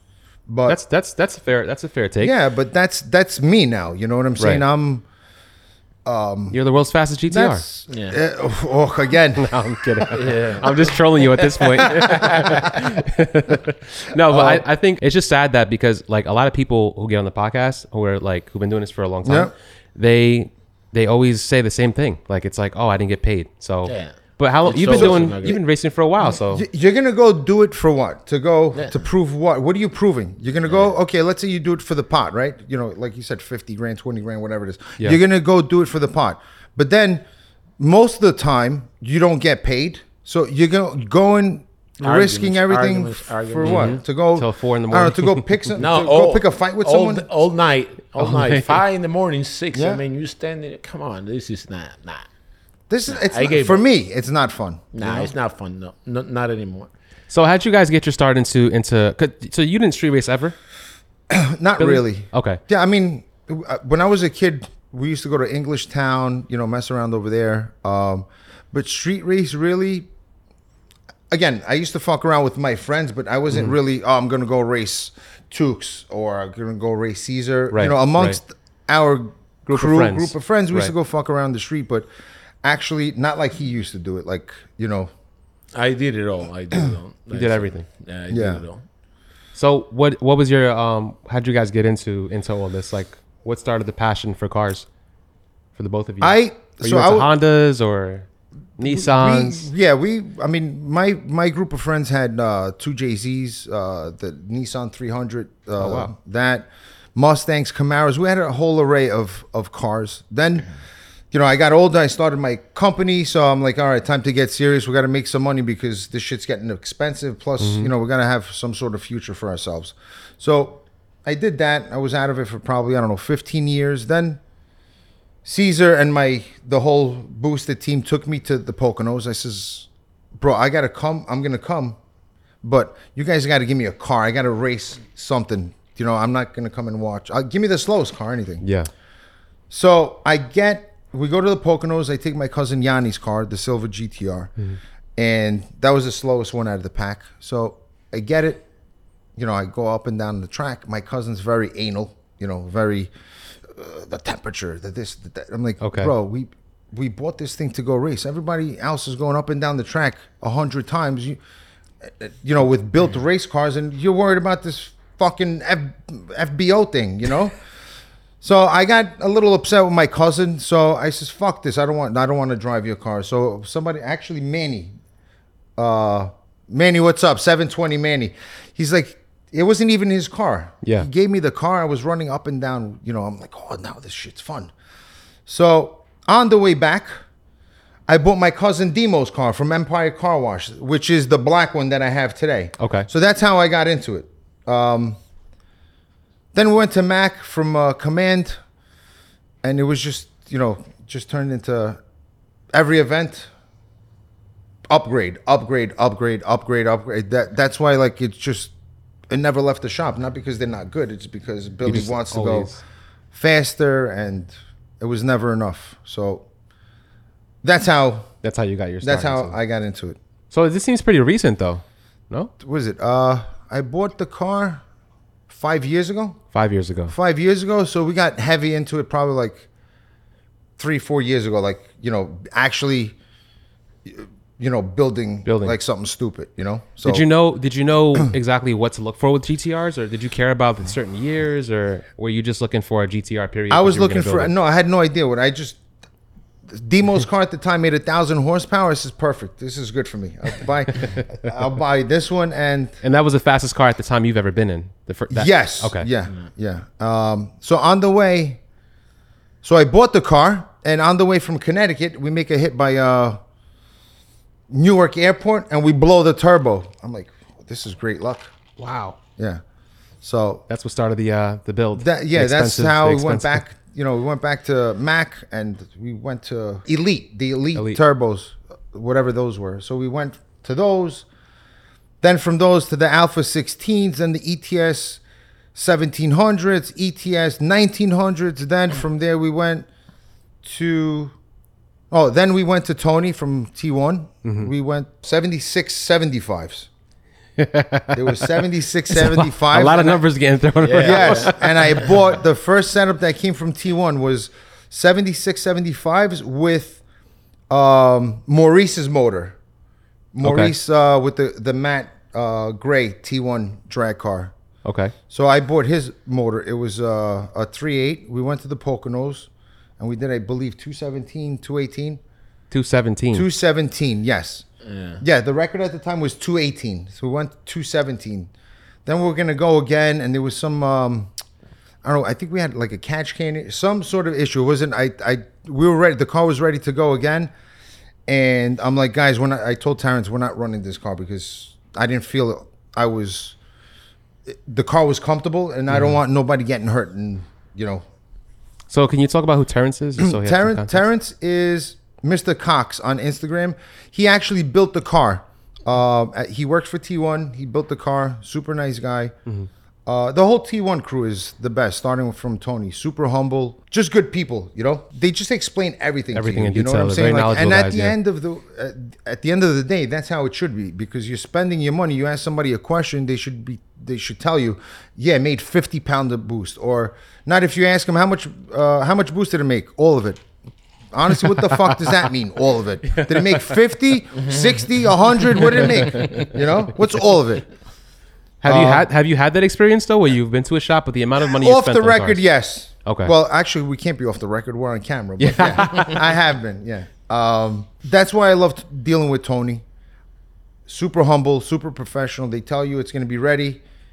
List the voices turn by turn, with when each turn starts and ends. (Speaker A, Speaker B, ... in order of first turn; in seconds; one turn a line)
Speaker A: 0.5-0.8
Speaker B: 0.7-2.3
Speaker A: 2.2-5.0
Speaker B: 4.4-4.6
Speaker A: 6.0-6.6
Speaker B: 6.5-7.6
Speaker A: 7.3-10.2
Speaker C: 7.9-8.2
Speaker B: 9.4-26.6
Speaker C: 10.1-12.7
Speaker A: 11.8-12.7
Speaker A: 14.3-14.6
Speaker A: 19.2-19.5
Speaker C: 23.9-25.6
Speaker A: 24.9-25.6
Speaker A: 26.2-37.2
Speaker C: 28.8-29.1
Speaker A: 37.8-47.3
Speaker C: 42.0-44.0
Speaker B: 43.6-45.5
Speaker C: 45.8-52.3
Speaker B: 48.2-48.8
Speaker A: 49.7-50.0
Speaker A: 52.9-55.3
Speaker C: 53.1-53.8
Speaker C: 55.0-56.9
Speaker B: 57.3-60.5
Speaker A: 61.3-70.1
Speaker B: 61.8-62.6
Speaker A: 71.3-82.1
Speaker B: 77.7-78.4
Speaker B: 79.7-80.9
Speaker A: 82.6-85.1
Speaker C: 85.7-88.8
Speaker B: 87.3-87.8
Speaker A: 88.3-88.6
Speaker B: 89.5-94.9
Speaker B: 95.8-98.3
Speaker A: 96.2-97.3
Speaker B: 98.8-99.7
Speaker A: 98.8-110.7
Speaker B: 105.8-106.1
Speaker A: 111.3-124.4
Speaker B: 117.6-117.9
Speaker A: 125.4-129.9
Speaker A: 130.4-132.0
Speaker A: 132.6-138.7
Speaker B: 138.6-138.9
Speaker A: 139.7-144.5
Speaker A: 145.2-148.7
Speaker A: 149.4-153.1
Speaker A: 153.6-161.4
Speaker B: 155.8-156.1
Speaker A: 162.0-167.6
Speaker A: 168.4-174.9
Speaker A: 175.8-184.7
Speaker A: 185.5-187.1
Speaker A: 188.1-195.2
Speaker B: 192.8-193.1
Speaker A: 196.5-198.6
Speaker A: 199.6-202.0
Speaker A: 202.7-203.5
Speaker A: 204.9-208.7
Speaker A: 209.3-212.7
Speaker B: 211.8-212.8
Speaker A: 213.3-216.5
Speaker A: 217.6-218.3
Speaker B: 218.4-219.6
Speaker A: 219.0-220.2
Speaker B: 220.5-222.5
Speaker A: 222.6-224.8
Speaker A: 225.5-226.4
Speaker B: 226.5-227.1
Speaker A: 227.1-229.7
Speaker A: 230.8-233.2
Speaker A: 234.1-237.2
Speaker B: 235.5-235.8
Speaker B: 237.1-244.5
Speaker A: 243.7-245.8
Speaker A: 246.7-253.0
Speaker B: 253.0-256.1
Speaker A: 255.3-258.6
Speaker A: 259.6-263.4
Speaker A: 264.7-268.5
Speaker B: 268.8-269.2
Speaker A: 269.4-269.6
Speaker A: 270.2-270.6
Speaker B: 270.7-273.6
Speaker A: 271.9-281.3
Speaker A: 282.2-285.2
Speaker A: 285.8-289.9
Speaker A: 290.6-291.4
Speaker A: 292.1-296.9
Speaker B: 294.4-294.7
Speaker B: 297.6-302.0
Speaker A: 298.1-300.2
Speaker C: 300.8-302.1
Speaker A: 301.0-307.0
Speaker A: 307.7-309.6
Speaker A: 310.3-314.5
Speaker B: 310.4-310.7
Speaker B: 314.9-315.1
Speaker A: 315.3-322.2
Speaker B: 322.7-323.5
Speaker A: 323.3-324.6
Speaker C: 324.9-325.2
Speaker A: 325.2-328.5
Speaker A: 329.1-331.3
Speaker A: 332.0-337.5
Speaker A: 338.3-343.6
Speaker A: 344.5-348.0
Speaker B: 345.9-346.2
Speaker B: 348.9-351.0
Speaker A: 350.2-359.4
Speaker A: 360.1-380.4
Speaker B: 366.3-368.2
Speaker A: 381.1-387.6
Speaker B: 381.7-382.1
Speaker B: 383.1-383.7
Speaker C: 384.4-384.9
Speaker B: 385.6-386.4
Speaker C: 386.1-386.5
Speaker B: 388.6-392.4
Speaker A: 388.6-389.1
Speaker A: 391.5-399.8
Speaker B: 393.1-393.3
Speaker B: 395.4-396.2
Speaker A: 400.9-403.8